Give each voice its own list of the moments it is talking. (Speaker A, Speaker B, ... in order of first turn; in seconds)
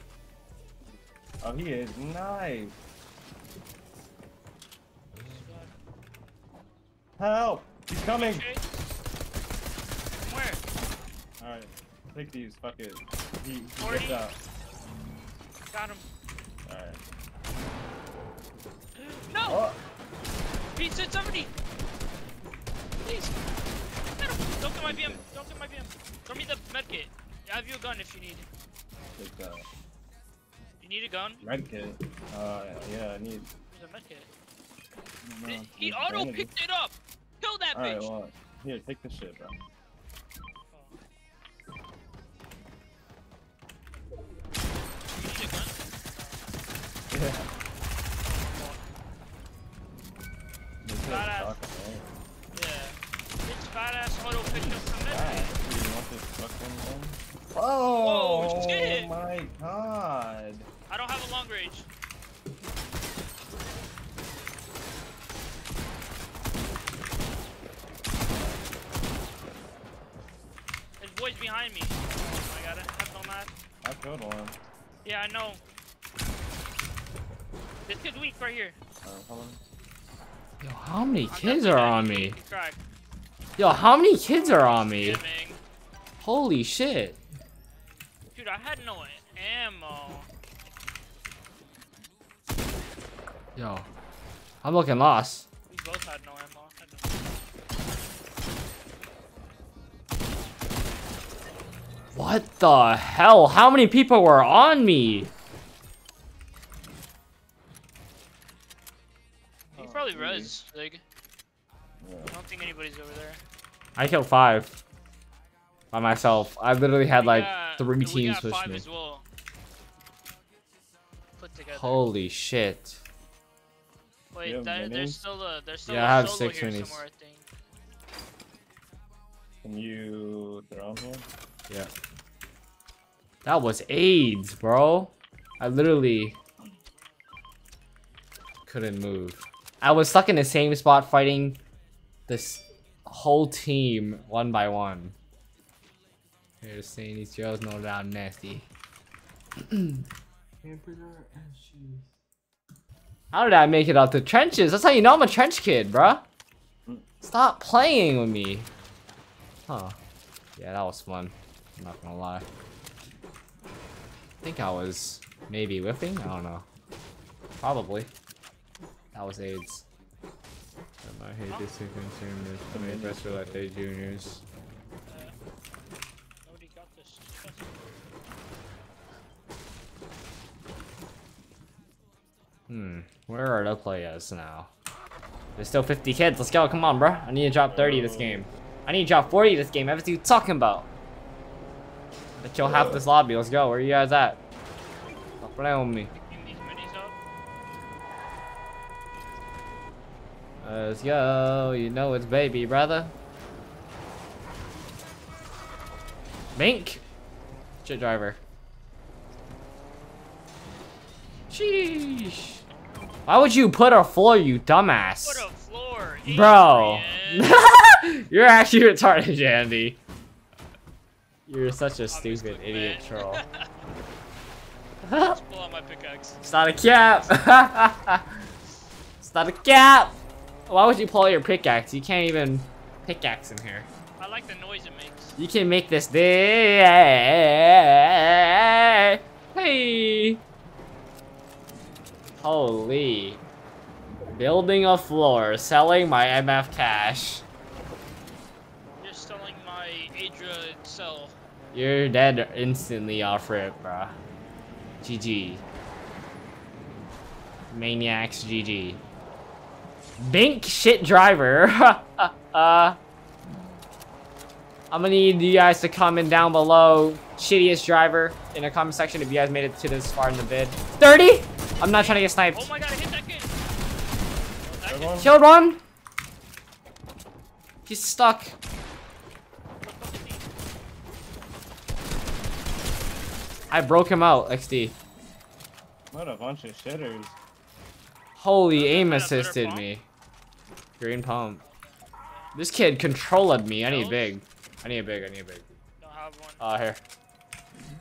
Speaker A: 1.4-2.8, 7.2-8.5, 11.4-14.3, 16.7-17.0, 19.5-19.8, 24.8-25.2, 29.2-29.6, 31.4-33.5, 35.2-36.5, 37.7-39.6, 47.1-47.5, 50.8-52.2, 54.5-60.7, 68.3-68.6, 73.8-74.6, 79.0-79.6, 109.8-110.6, 112.0-112.4, 124.4-125.2, 129.6-131.3, 150.6-152.0, 172.7-173.7, 187.6-188.5, 192.6-193.0, 274.9-275.3, 286.1-287.4
Speaker B: 5.2-5.7, 8.2-8.6, 10.2-10.6, 13.8-14.3, 15.7-16.1, 19.0-19.7, 20.8-21.5, 23.0-23.5, 24.2-28.5, 30.8-31.4, 33.7-34.3, 35.5-38.1, 40.7-41.0, 45.1-46.4, 48.2-48.8, 51.0-51.6, 52.5-55.6, 57.9-59.1, 60.9-61.9, 71.0-73.5, 75.0-75.6, 77.9-78.8, 81.1-82.8, 84.2-85.6, 88.3-90.3, 95.7-97.2, 109.7-111.0, 112.3-113.4, 117.2-119.2, 121.4-122.1, 124.3-127.5, 175.1-175.4, 176.5-177.8, 196.1-197.1, 215.2-217.6, 222.1-223.7, 225.2-226.4, 234.2-235.4, 249.0-251.3, 271.8-273.6, 274.6-275.3, 279.8-280.5, 288.7-289.9, 291.6-292.5, 293.8-294.4, 296.0-296.6
Speaker C: 80.6-82.4, 83.6-85.2, 86.2-87.2, 93.6-93.9, 94.6-95.5, 102.2-105.3, 114.0-114.7, 115.9-118.8, 121.7-123.0, 125.9-127.0, 133.4-136.3, 138.7-141.6, 142.3-145.1, 146.6-148.7, 149.7-150.0, 153.3-156.2, 157.2-158.7, 159.7-159.9, 160.6-162.4, 164.4-166.7, 167.6-168.1, 169.1-169.8, 171.0-174.4, 182.7-184.7, 185.6-190.9, 192.4-194.4, 195.4-196.1, 200.6-203.1, 206.6-207.0, 207.8-208.4, 211.5-212.6, 213.3-215.5, 216.3-220.0, 221.5-223.4, 225.0-225.4, 226.4-228.2, 229.2-230.2, 230.7-233.9, 235.4-240.4, 242.4-243.4, 244.3-247.4, 251.7-254.2, 255.0-255.6, 257.7-259.0, 260.2-263.0, 264.9-272.7, 275.2-275.8, 277.9-278.5, 283.7-285.0, 288.4-290.0, 291.0-291.6, 292.6-295.6, 296.6-297.0